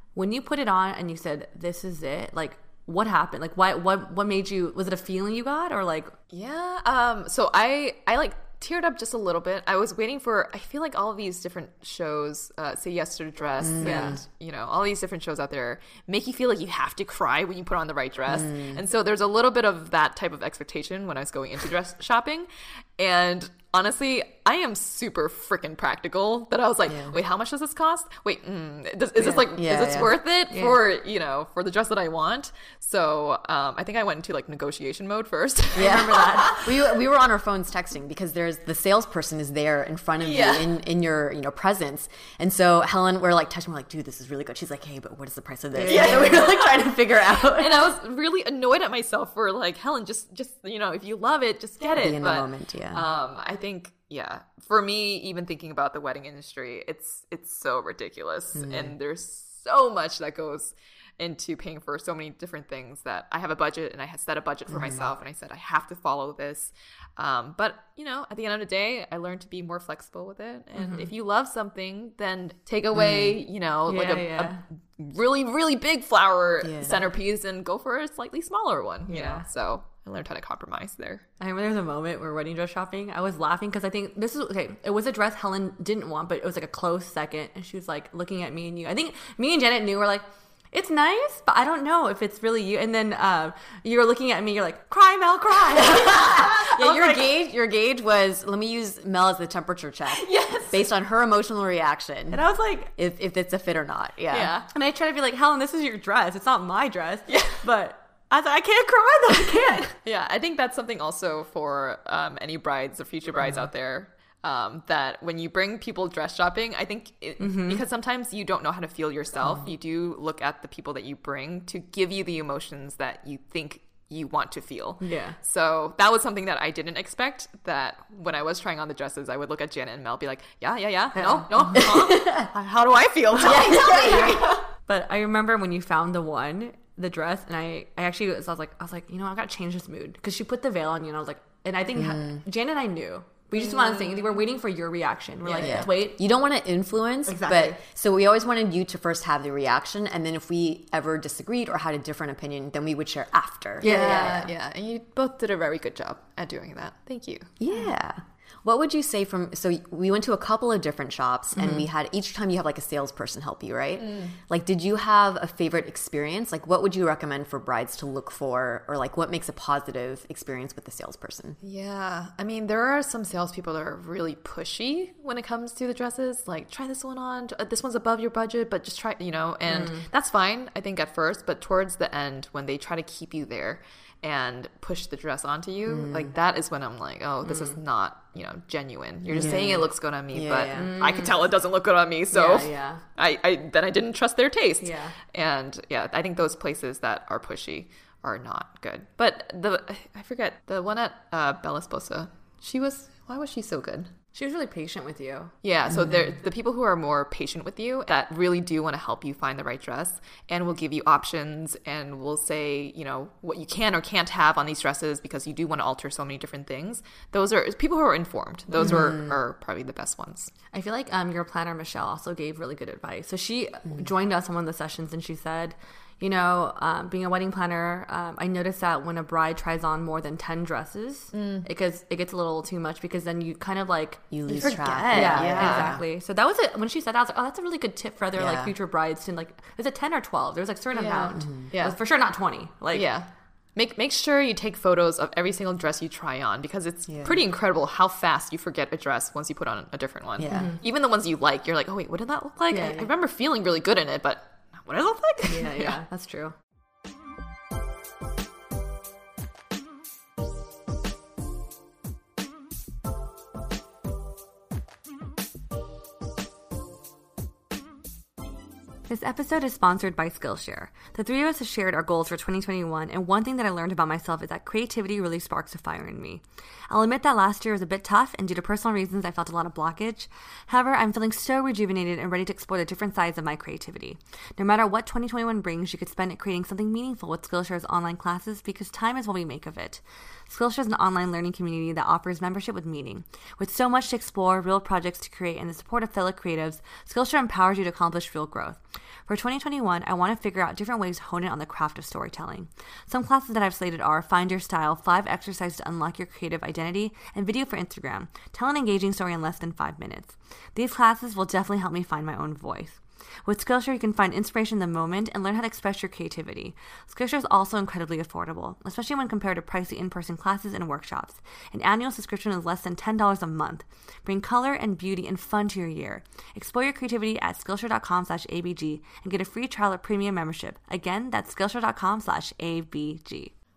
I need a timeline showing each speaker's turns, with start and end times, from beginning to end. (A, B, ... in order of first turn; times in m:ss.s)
0:00.2-0:06.1 A
0:06.3-0:36.6 B
0:13.6-0:14.2 C
0:13.8-0:14.2 A
0:18.3-0:18.8 C
0:26.9-0:27.2 C
0:29.5-0:30.1 C
0:30.5-0:30.8 A
0:35.8-0:36.6 A
0:35.8-0:47.9 C
0:40.2-0:40.7 B
0:45.7-0:46.4 A
0:45.9-0:46.7 B
0:47.4-1:21.2 B
0:51.9-0:53.1 C
0:58.6-0:59.0 C
1:04.7-1:05.1 C
1:10.8-1:11.1 A
1:13.0-1:13.4 C
1:13.9-1:14.6 A
1:16.6-1:17.0 C
1:19.1-1:19.5 A
1:21.4-1:37.3 A
1:36.0-1:42.4 C
1:40.1-1:40.8 B
1:42.3-1:42.9 A
1:43.0-1:44.6 C
1:44.3-1:44.7 B
1:44.7-1:49.9 A
1:47.3-1:47.6 B
1:50.0-2:14.6 B
1:57.4-1:57.8 A
2:05.0-2:05.4 A
2:11.2-2:11.5 A
2:11.7-2:12.5 C
2:13.4-2:14.6 C
2:13.7-2:14.0 A
2:14.8-2:26.2 A
2:22.0-2:22.4 C
2:23.7-2:24.1 B
2:25.4-2:25.9 B
2:25.6-2:34.5 C
2:27.3-2:27.8 A
2:33.8-2:34.5 A
2:33.8-2:37.5 B
2:37.6-2:51.6 C
2:44.0-2:44.4 B
2:51.6-3:24.1 B
2:59.7-3:00.1 A
3:05.9-3:06.3 C
3:09.3-3:10.9 C
3:10.8-3:11.4 A
3:12.3-3:13.0 A
3:14.8-3:15.2 A
3:24.3-3:25.5 A
3:25.6-3:40.5 B
3:38.8-3:39.3 C
3:40.7-4:03.1 A
3:51.3-3:51.7 B
3:54.3-3:56.0 C
3:54.5-3:56.0 B
3:58.4-3:58.7 C
4:01.0-4:02.0 B
4:01.3-4:01.7 C
4:02.9-4:16.0 B
4:07.1-4:07.4 C
4:10.4-4:10.7 C
4:10.5-4:10.8 A
4:12.7-4:13.1 A
4:15.4-4:16.6 A
4:29.1-5:33.5 A